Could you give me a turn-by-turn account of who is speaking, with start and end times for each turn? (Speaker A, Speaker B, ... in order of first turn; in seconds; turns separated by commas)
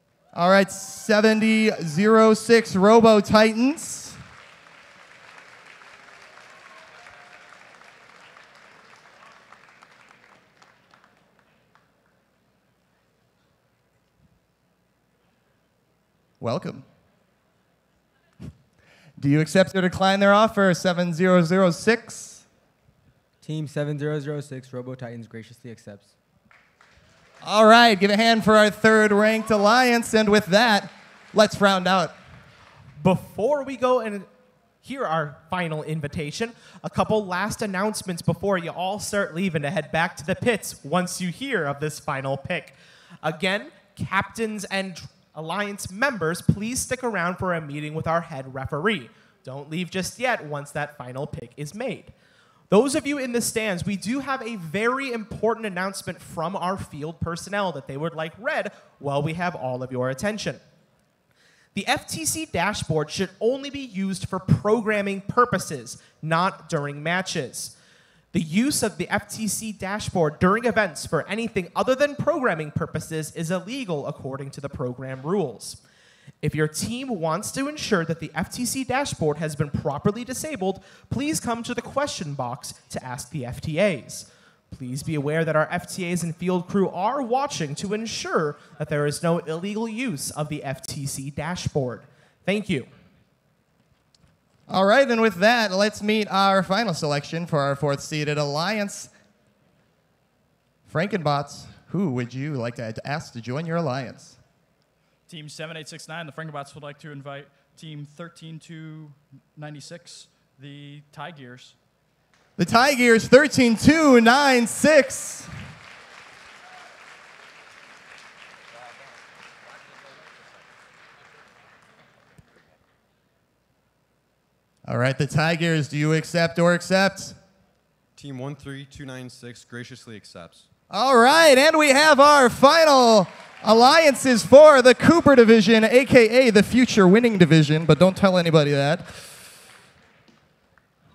Speaker A: 0.3-4.2, Speaker A: 16.4-16.8, Speaker A: 19.2-22.4, Speaker B: 23.4-26.1, Speaker A: 27.4-32.1, Speaker C: 33.0-34.3, Speaker C: 34.8-52.1, Speaker C: 52.7-60.6, Speaker C: 61.7-67.7, Speaker C: 68.3-75.8, Speaker C: 76.4-92.9, Speaker A: 94.7-99.1, Speaker A: 100.8-104.4, Speaker D: 105.3-111.7, Speaker A: 112.6-115.5, Speaker A: 124.8-127.4, Speaker E: 128.2-130.7, Speaker A: 130.9-139.2